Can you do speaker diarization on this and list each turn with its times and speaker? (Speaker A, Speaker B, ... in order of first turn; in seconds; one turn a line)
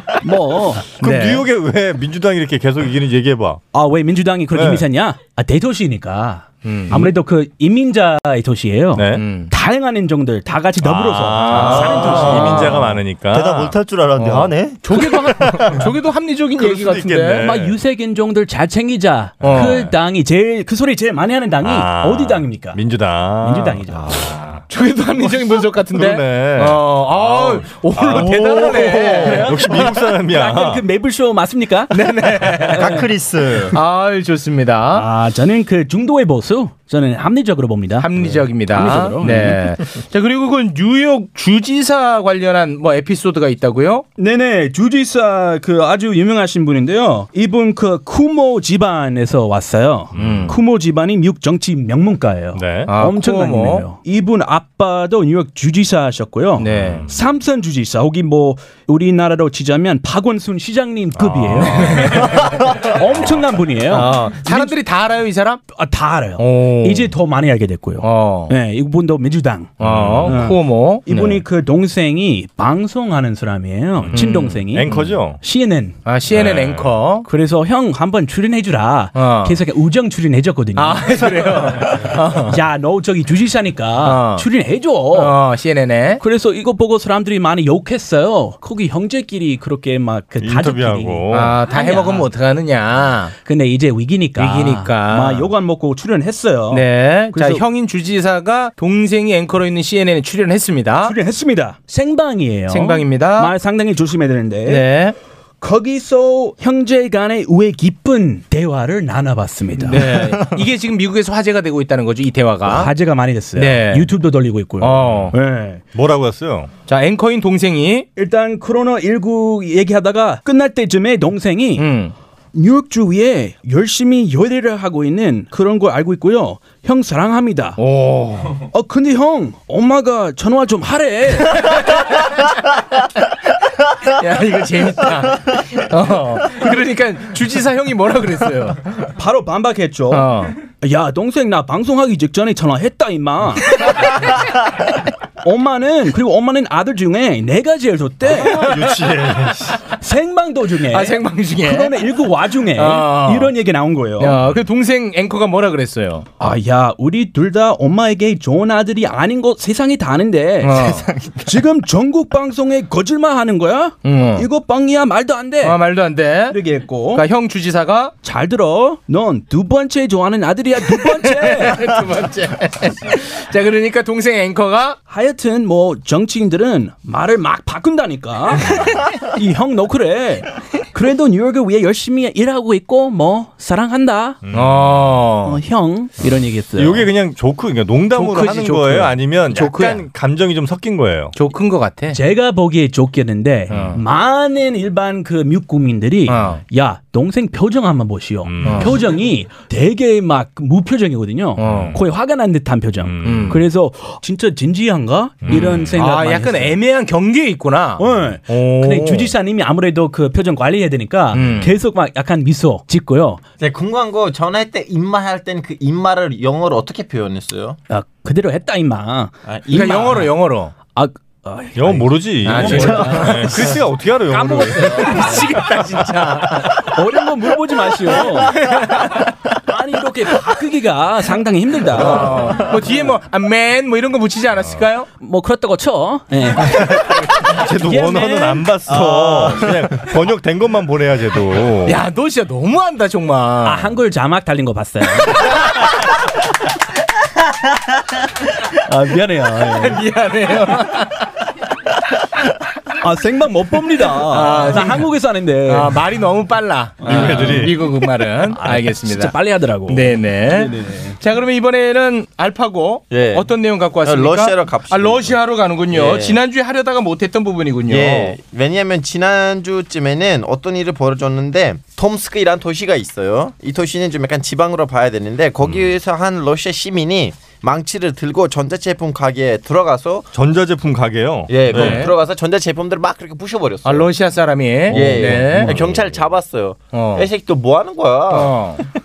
Speaker A: 0.2-0.8
Speaker B: 1.0-3.6
Speaker C: 1.0-1.4
Speaker A: 3.7-12.7
Speaker B: 4.5-4.8
Speaker C: 6.6-7.0
Speaker B: 8.9-9.2
Speaker C: 9.1-9.5
Speaker B: 10.8-14.5
Speaker C: 11.4-12.9
Speaker D: 11.9-15.7
Speaker C: 14.8-17.5
Speaker B: 16.6-17.8
Speaker A: 17.4-22.8
Speaker C: 19.4-19.9
Speaker B: 19.4-19.9
Speaker B: 21.6-24.6
Speaker A: 23.4-24.3
Speaker C: 24.7-29.9
Speaker B: 25.9-30.8
Speaker A: 29.2-32.0
Speaker C: 31.9-32.9
Speaker D: 32.7-33.8
Speaker A: 32.7-33.0
Speaker C: 33.7-35.0
Speaker A: 34.9-38.1
Speaker C: 38.0-44.0
Speaker A: 38.7-39.6
Speaker A: 44.2-64.8
Speaker B: 50.1-50.6
Speaker C: 50.1-50.6
Speaker B: 52.5-52.9
Speaker C: 52.9-53.9
Speaker C: 56.6-57.0
Speaker B: 56.7-57.1
Speaker B: 61.1-62.4
Speaker C: 61.7-62.5
Speaker C: 63.9-65.6
Speaker A: 65.7-75.9
Speaker C: 66.4-67.1
Speaker C: 68.0-68.5
Speaker B: 69.8-70.5
Speaker C: 69.8-71.4
Speaker B: 74.0-75.4
Speaker C: 74.1-75.1
Speaker C: 76.0-77.2
Speaker B: 76.3-77.0
Speaker A: 77.2-85.3
Speaker C: 79.1-79.6
Speaker C: 80.8-82.6
Speaker C: 84.0-84.5
Speaker C: 85.1-86.2
Speaker A: 86.2-92.3
Speaker B: 90.4-91.6
Speaker C: 91.3-93.3
Speaker A: 93.4-97.6
Speaker C: 94.4-95.5
Speaker C: 96.7-101.1
Speaker A: 101.0-104.8
Speaker C: 102.7-103.5
Speaker C: 104.7-105.2
Speaker A: 105.6-110.0
Speaker C: 109.8-112.9
Speaker A: 112.7-115.8
Speaker C: 113.5-114.1
Speaker C: 114.8-115.3
Speaker B: 115.0-115.3
Speaker B: 115.9-116.7
Speaker C: 116.9-118.0
Speaker A: 118.2-121.9
Speaker C: 121.8-122.1
Speaker A: 122.5-127.8
Speaker C: 127.8-128.6
Speaker A: 128.7-131.9
Speaker C: 131.5-132.6
Speaker C: 134.1-139.1
Speaker A: 139.2-144.0
Speaker C: 140.1-140.5
Speaker A: 145.4-148.6
Speaker B: 148.3-149.8
Speaker C: 148.4-149.2
Speaker A: 150.0-154.4
Speaker C: 150.9-152.0
Speaker C: 152.8-153.5
Speaker C: 154.2-156.2
Speaker A: 156.4-160.9
Speaker C: 160.6-161.1
Speaker D: 161.0-161.5
Speaker A: 161.4-165.8
Speaker C: 164.0-164.5
Speaker C: 165.6-166.6
Speaker A: 166.5-167.2
Speaker C: 167.1-168.1
Speaker A: 168.2-171.9
Speaker C: 170.9-175.0
Speaker A: 175.1-184.4
Speaker B: 184.4-185.2
Speaker C: 184.5-185.6
Speaker A: 185.4-187.1
Speaker B: 186.8-191.3
Speaker C: 188.1-190.0
Speaker C: 191.3-192.2
Speaker A: 192.1-206.8
Speaker B: 193.7-194.0
Speaker C: 193.7-194.0
Speaker C: 196.3-196.6
Speaker B: 198.4-198.9
Speaker C: 198.6-198.9
Speaker C: 201.6-202.0
Speaker B: 201.6-202.0
Speaker B: 203.0-203.6
Speaker C: 203.2-203.6
Speaker B: 205.4-206.0
Speaker C: 205.5-209.3
Speaker A: 208.0-213.4
Speaker C: 211.3-211.7
Speaker B: 211.3-211.7
Speaker E: 213.6-217.8
Speaker A: 217.9-220.3
Speaker E: 219.5-220.2
Speaker C: 219.7-220.7
Speaker A: 220.9-223.7
Speaker B: 221.8-225.2
Speaker C: 222.4-223.7
Speaker A: 224.3-225.5
Speaker C: 224.8-226.8
Speaker A: 226.8-228.6
Speaker C: 228.5-229.3
Speaker A: 229.7-232.4
Speaker C: 231.9-235.1
Speaker B: 232.2-232.5
Speaker A: 235.2-236.9
Speaker B: 236.8-242.0
Speaker A: 237.8-238.7
Speaker D: 238.8-239.9
Speaker C: 241.8-243.9
Speaker A: 243.6-245.5
Speaker A: 248.9-250.0
Speaker C: 249.8-251.3
Speaker A: 253.0-256.0
Speaker C: 254.3-255.1
Speaker C: 255.7-259.3
Speaker A: 257.0-257.8
Speaker B: 257.1-257.8
Speaker A: 258.5-261.2
Speaker C: 259.9-268.4
Speaker E: 263.1-263.5
Speaker E: 264.0-265.4
Speaker E: 265.9-266.4
Speaker E: 267.9-280.3
Speaker B: 275.6-275.9
Speaker B: 280.3-282.1
Speaker E: 281.5-284.1
Speaker C: 281.7-282.1
Speaker C: 283.8-285.8
Speaker E: 284.9-288.6
Speaker B: 284.9-286.3
Speaker C: 286.9-287.3
Speaker C: 288.3-288.8